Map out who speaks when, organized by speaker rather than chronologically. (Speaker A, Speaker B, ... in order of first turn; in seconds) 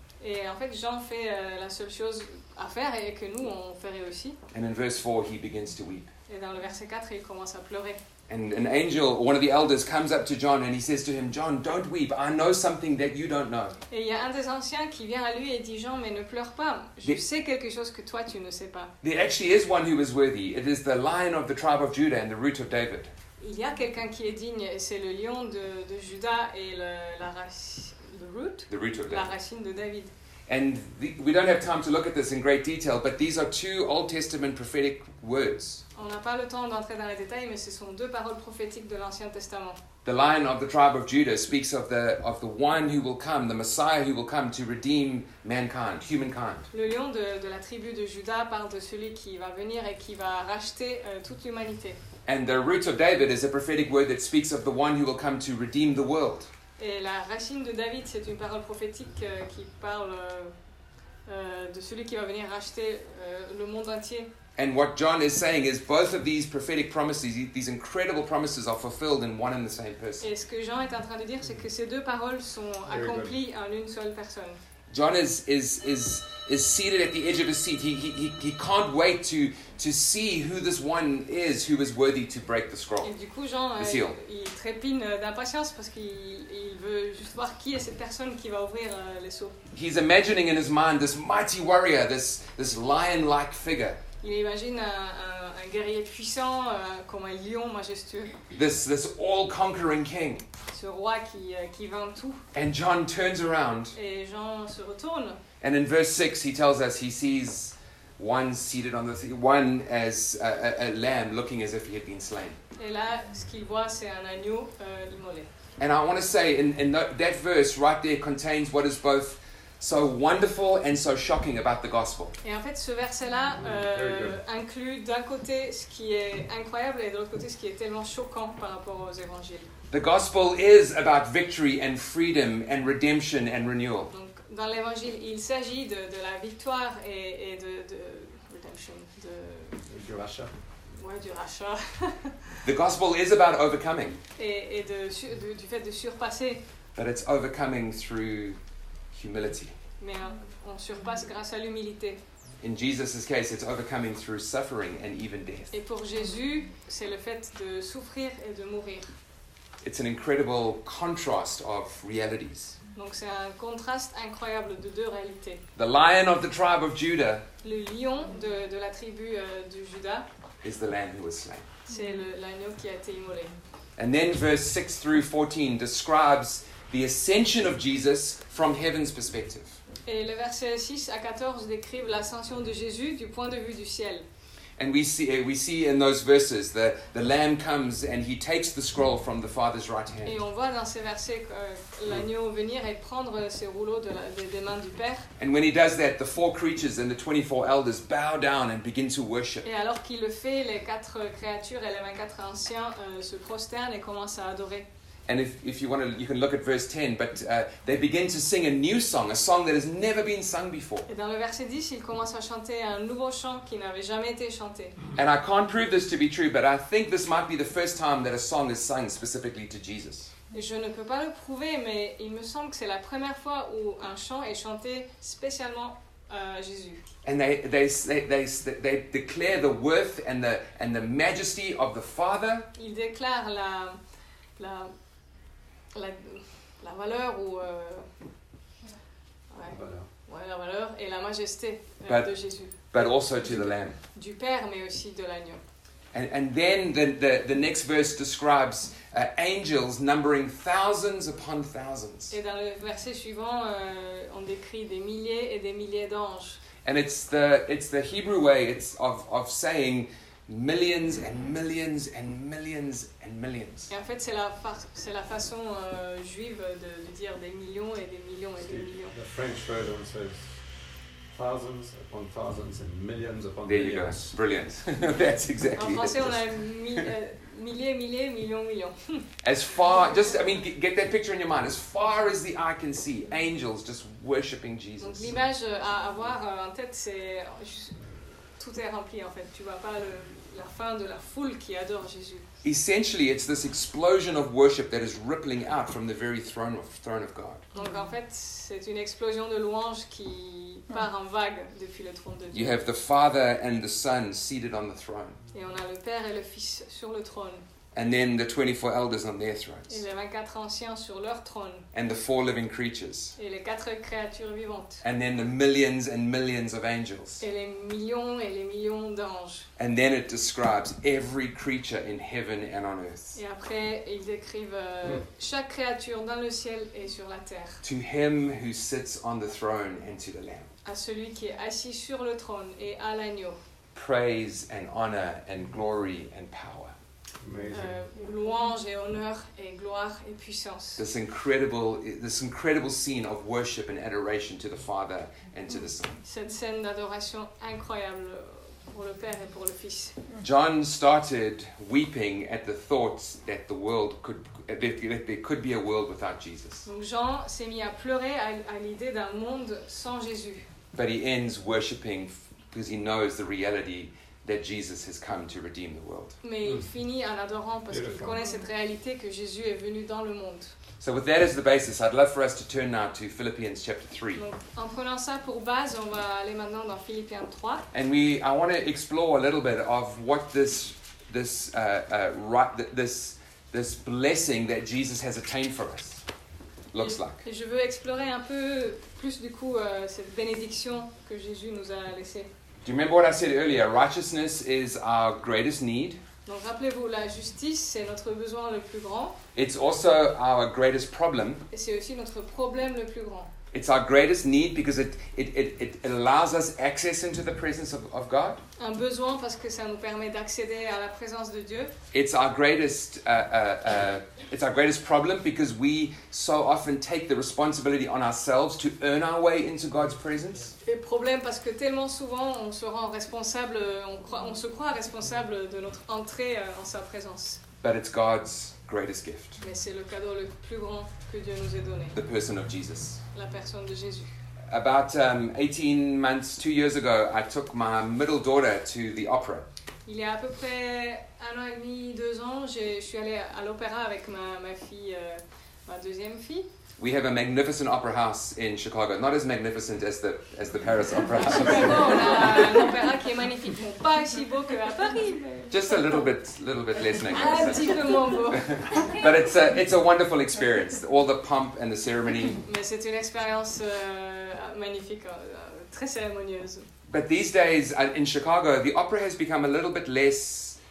Speaker A: 0.2-4.4, 6.3-8.0, 13.9-18.9, 23.4-30.1, 35.9-39.8, 46.7-52.0, 56.8-60.5, 61.2-64.3, 70.2-74.6, 83.0-89.5, 94.2-98.4, 100.7-102.4, 103.9-105.4, 112.8-115.5, 122.4-129.7, 134.1-139.8, 141.0-142.5, 144.4-146.6, 150.0-152.2, 155.7-159.1, 162.9-165.6, 167.6-170.3, 171.9-173.5, 180.1-184.2, 190.2-195.3, 199.6-204.9, 211.1-215.0, 220.5-227.0, 232.8-234.0, 234.6-234.9, 235.9-238.1, 239.5-243.5, 244.1-245.6, 252.3-256.6, 263.9-269.1, 275.8-279.2, 285.0-287.9, 288.6-292.4, 297.7-302.8, 305.5-307.6, 309.9-311.9, 313.4-315.0, 317.4-319.7, 323.3-327.8, 330.8-333.6, 337.7-341.0, 346.2-350.2, 356.9-360.6, 366.4-370.7, 374.4-377.9, 386.9-392.5, 396.4-399.4, 401.7-403.5, 408.8-411.9, 420.8-427.6, 429.6-432.1, 433.3-434.3, 440.1-446.6, 451.4-456.1, 457.3-459.2, 462.6-466.9
Speaker B: 4.5-6.1, 8.3-13.8, 19.0-23.1, 28.7-29.3, 30.5-35.8, 40.0-46.7, 52.3-56.5, 64.5-70.2, 74.9-83.1, 83.8-84.2, 89.7-94.0, 98.5-100.4, 102.5-104.0, 105.6-112.6, 115.8-122.3, 129.9-134.1, 142.6-144.2, 146.9-148.6, 149.1-149.7, 152.6-155.7, 159.8-162.8, 165.8-167.4, 170.6-171.7, 174.0-179.8, 184.8-190.4, 195.4-199.7, 205.3-211.1, 215.2-220.3, 227.2-232.7, 242.1-244.0, 246.1-252.3, 256.8-263.9, 273.6-276.5, 279.4-285.3, 292.6-297.6, 302.5-305.4, 307.9-310.0, 311.9-313.3, 315.0-317.4, 319.8-323.4, 327.8-330.7, 333.9-336.9, 341.0-346.1, 350.4-356.9, 360.9-366.4, 371.0-374.4, 377.9-386.2, 386.9-387.4, 392.8-396.2, 399.5-401.6, 403.7-408.6, 412.1-420.7, 427.8-429.6, 432.1-433.2, 434.7-439.6, 447.0-452.6, 455.7-462.6, 467.1-470.8
Speaker C: 72.9-73.4, 123.6-124.4, 139.8-140.5, 239.6-240.1, 268.6-270.5, 271.3-274.3, 337.4-338.0, 367.9-368.4